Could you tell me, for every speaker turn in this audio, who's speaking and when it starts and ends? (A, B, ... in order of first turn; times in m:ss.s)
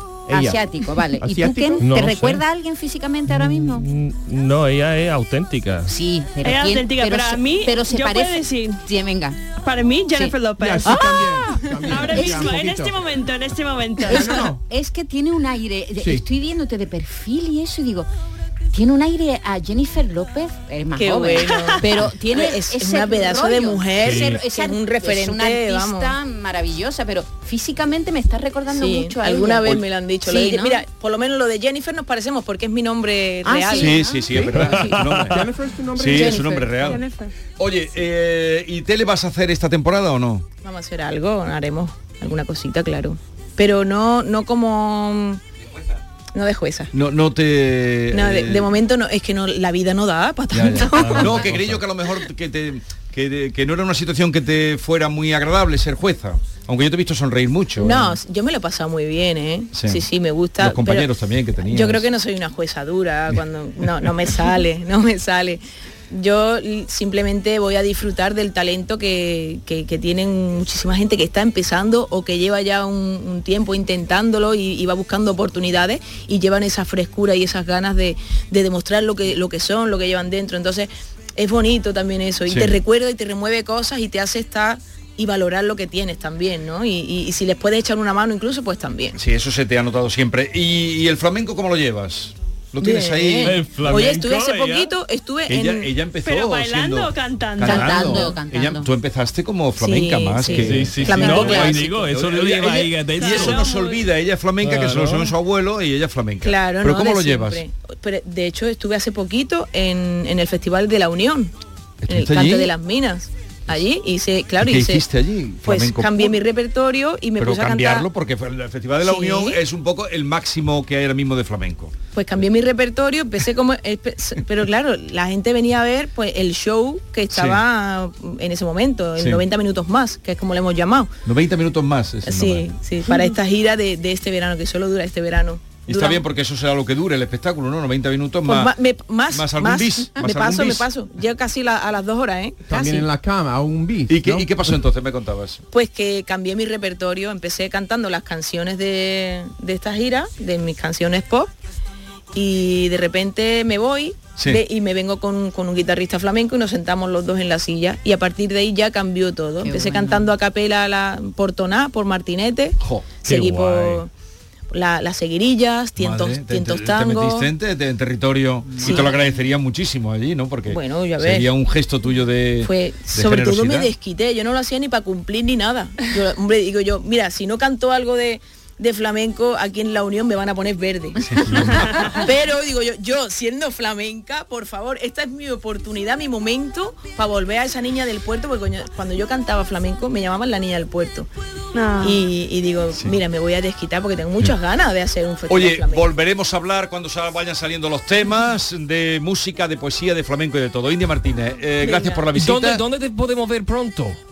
0:00.3-0:01.8 A
0:00.3-0:03.8 B
0:01.8-0:02.4 C
0:03.3-0:05.9 C
0:05.9-0:09.4 B
0:06.4-0:08.8 D
0:09.6-0:11.1 D
0:10.1-0:12.5 B
0:10.6-0:13.0 A
0:11.8-0:14.4 D
0:14.0-0:18.1 B
0:14.1-0:14.6 A
0:16.0-0:16.3 A
0:18.7-0:30.8 B
0:21.0-0:26.2 E
0:21.4-0:21.8 D
0:24.0-0:24.4 C
0:28.7-0:34.0 E
0:33.4-0:34.3 B
0:33.7-0:37.1 F
0:34.3-0:36.4 A
0:34.5-0:35.4 C
0:36.3-0:36.7 E
0:36.8-0:37.3 D
0:37.6-0:40.4 F
0:40.6-0:45.4 E
0:45.7-0:46.0 F
0:46.4-0:46.9 E
0:46.9-0:48.7 F
0:48.1-0:51.3 E
0:50.5-0:58.2 F
0:50.8-0:51.8 C
0:57.8-1:01.1 E
0:59.7-1:00.0 F
1:00.6-1:02.1 F
1:01.6-1:29.2 E
1:22.5-1:22.8 F
1:29.2-1:33.7 F
1:32.8-1:35.9 E
1:33.4-1:34.9 C
1:35.5-1:47.6 F
1:36.2-1:38.3 D
1:37.6-1:38.9 B
1:37.7-1:38.1 C
1:39.8-1:41.8 E
1:40.5-1:43.6 C
1:43.2-1:44.0 D
1:44.6-1:45.3 C
1:46.4-1:51.5 E
1:52.0-1:52.7 F
1:52.1-1:55.0 E
1:54.6-1:56.4 F
1:55.6-1:58.1 E
1:57.4-2:02.0 F
1:59.0-1:59.6 E
2:02.2-2:11.1 E
2:07.3-2:07.6 F
2:11.2-2:12.7 F
2:12.3-2:16.2 E
2:13.1-2:13.3 D
2:15.9-2:18.7 F
2:18.4-2:23.1 E
2:19.3-2:20.9 F
2:22.7-2:24.5 A
2:24.1-2:25.6 F
2:25.7-2:31.5 E
2:32.3-2:44.1 E
2:34.4-2:34.6 F
2:39.6-2:40.3 B
2:42.8-2:43.2 F
2:43.3-2:44.0 C
2:44.7-2:47.5 E
2:46.0-2:53.9 F
2:48.7-2:49.4 B
2:50.7-2:51.4 E
2:52.6-3:01.2 E
3:01.2-3:01.9 F
3:01.7-3:02.2 D
3:02.2-3:11.3 E
3:11.7-3:12.2 D
3:12.0-3:16.1 E
3:12.9-3:13.2 F
3:15.5-3:22.8 F
3:21.8-3:22.2 E
3:22.3-3:24.2 C